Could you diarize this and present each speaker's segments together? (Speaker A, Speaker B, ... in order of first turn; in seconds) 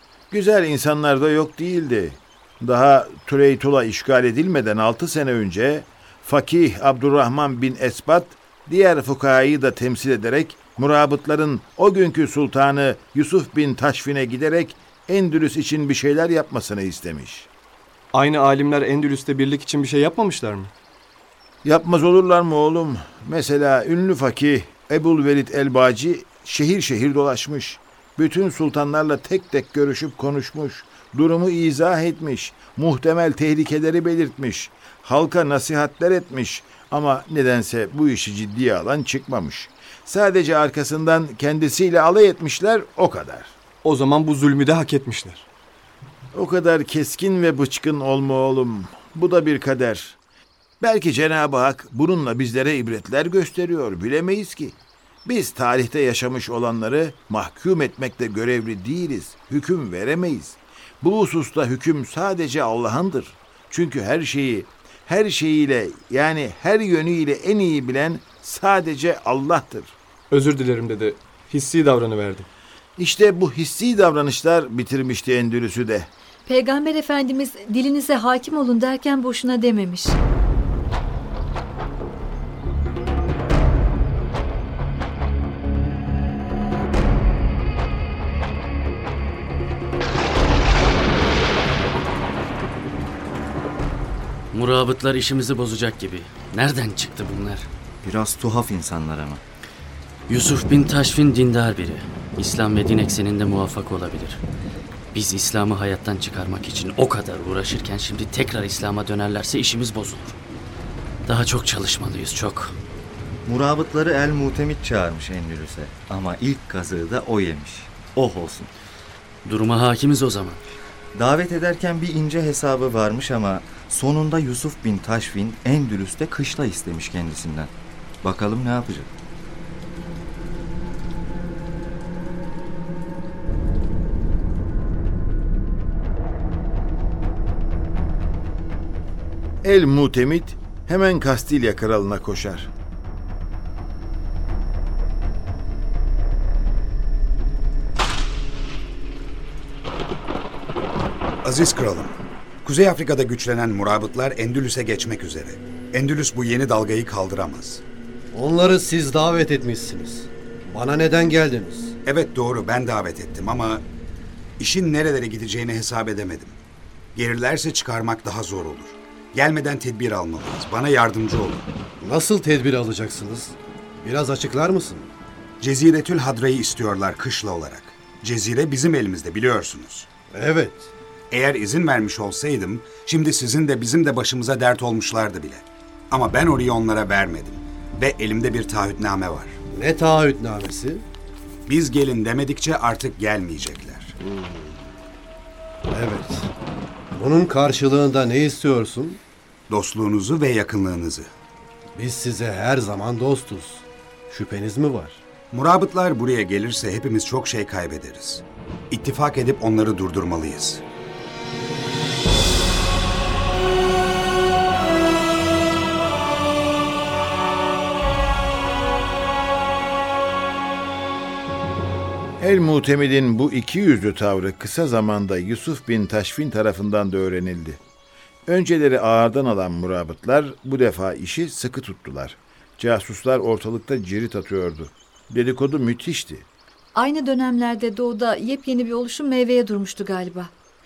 Speaker A: 0.3-17.5, 21.6-43.5, 46.3-50.2, 50.8-69.9, 73.0-76.1, 139.6-142.7, 222.4-227.8, 228.5-236.4
Speaker B: 18.1-20.7, 43.8-45.4, 70.3-72.5
Speaker C: 76.5-80.2, 236.9-240.5
Speaker D: 94.5-97.7, 100.3-104.4, 105.1-110.3, 111.2-112.8, 119.4-120.6
Speaker E: 98.0-99.4, 113.5-118.7, 121.1-129.1
Speaker F: 151.5-152.1, 152.7-157.8, 162.1-163.8, 164.6-166.5, 167.2-171.6, 175.6-180.0, 181.3-185.6, 186.1-189.5, 191.7-194.1, 199.7-201.2, 205.5-208.4, 208.9-210.8
Speaker G: 158.3-161.9, 172.0-175.1, 180.3-180.9, 189.7-191.0, 194.2-194.7, 195.9-196.5, 197.1-199.2, 201.9-205.2